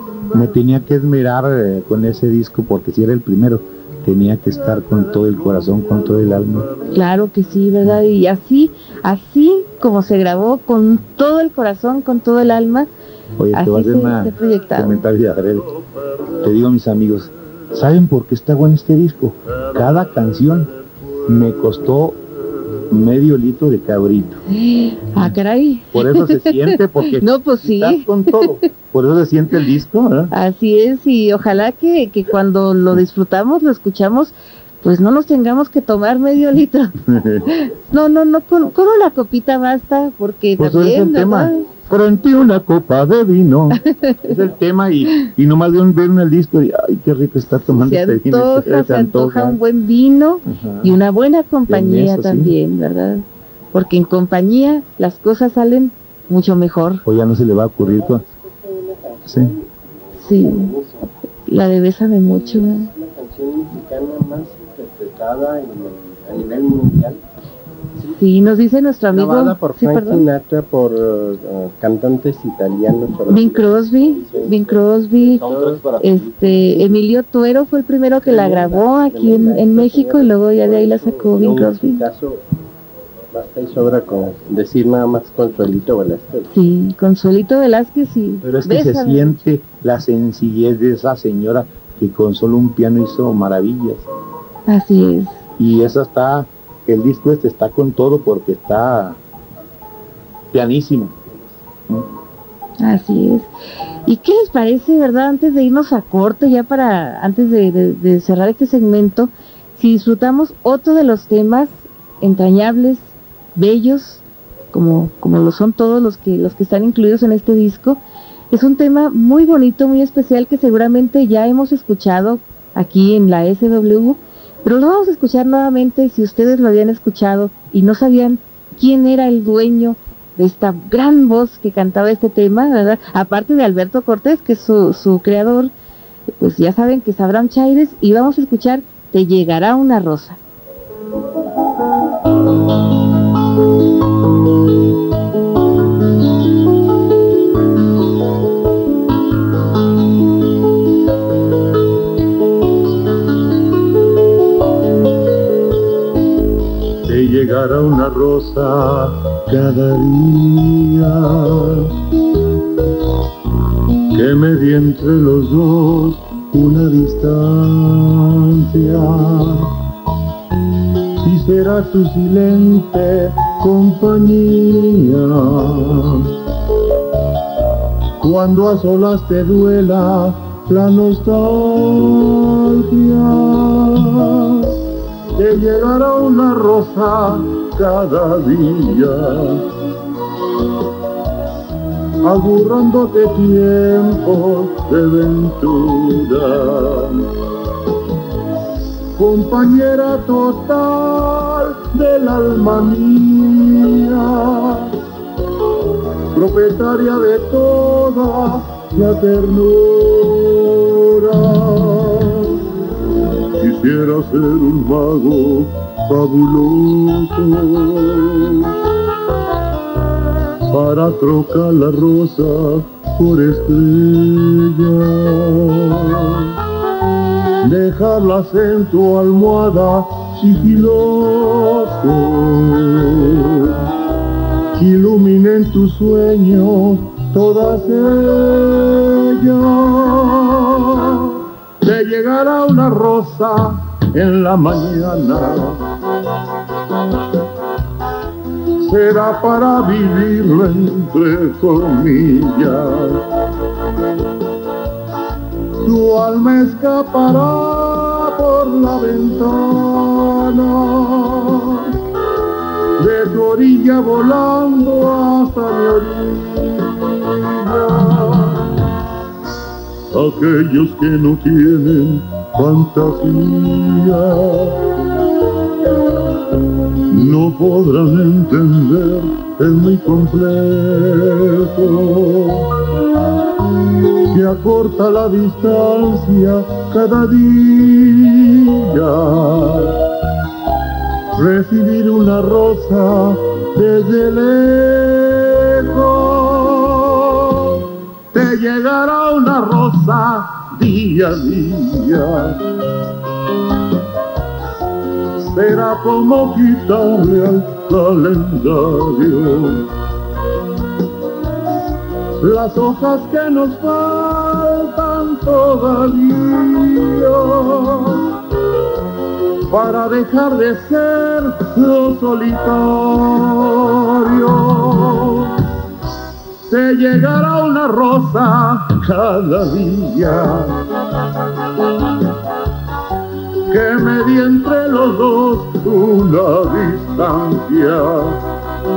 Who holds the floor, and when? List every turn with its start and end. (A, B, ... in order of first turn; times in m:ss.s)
0:00.3-0:06.7 A
0:06.9-0:12.9 B
0:13.4-0:15.6 A
0:13.5-0:15.0 B
0:16.4-0:20.7 A
0:21.3-0:22.2 A
0:22.9-0:24.4 A
0:24.5-0:28.6 B
0:25.9-0:30.3 A
0:30.3-0:36.9 B
0:37.1-0:37.5 A
0:37.5-0:41.6 B
0:40.6-0:49.6 A
0:43.7-0:44.3 B
0:47.6-0:57.0 B
0:50.4-0:51.0 A
0:51.7-0:52.6 A
0:57.0-0:58.2 A
0:57.8-1:01.1 C
0:59.2-0:59.5 A
1:00.2-1:00.7 B
1:01.4-1:02.9 B
1:02.2-1:07.2 C
1:08.0-1:10.2 B
1:09.1-1:17.0 C
1:13.3-1:22.0 B
1:18.2-1:22.4 C
1:23.3-1:26.5 C
1:26.5-1:29.4 B
1:28.4-1:34.0 A
1:34.7-1:35.4 B
1:35.6-1:39.2 A
1:40.5-1:41.2 A
1:42.8-1:43.5 B
1:44.0-1:54.2 B
1:54.7-1:58.0 B
1:58.5-2:15.7 B
2:16.4-2:20.4 B
2:37.1-2:41.9 D
2:44.1-2:49.7 D
2:51.2-2:56.3 D
2:58.2-3:04.7 D
3:05.3-3:09.6 D
3:12.2-3:17.3 D
3:19.1-3:24.9 D
3:26.3-3:32.5 D
3:33.6-3:38.7 D
3:40.7-3:46.5 D
3:47.6-3:53.7 D
3:54.7-4:05.8 D
4:08.8-4:13.2 D
4:15.8-4:21.9 D
4:23.0-4:28.7 D
4:30.1-4:34.8 D
4:37.1-4:42.7 D
4:44.3-4:50.0 D
4:51.4-4:57.8 D
4:58.3-5:02.6 D
5:05.4-5:09.9 D
5:12.4-5:18.3 D
5:19.7-5:25.5 D
5:26.7-5:30.8 D
5:33.7-5:38.4 D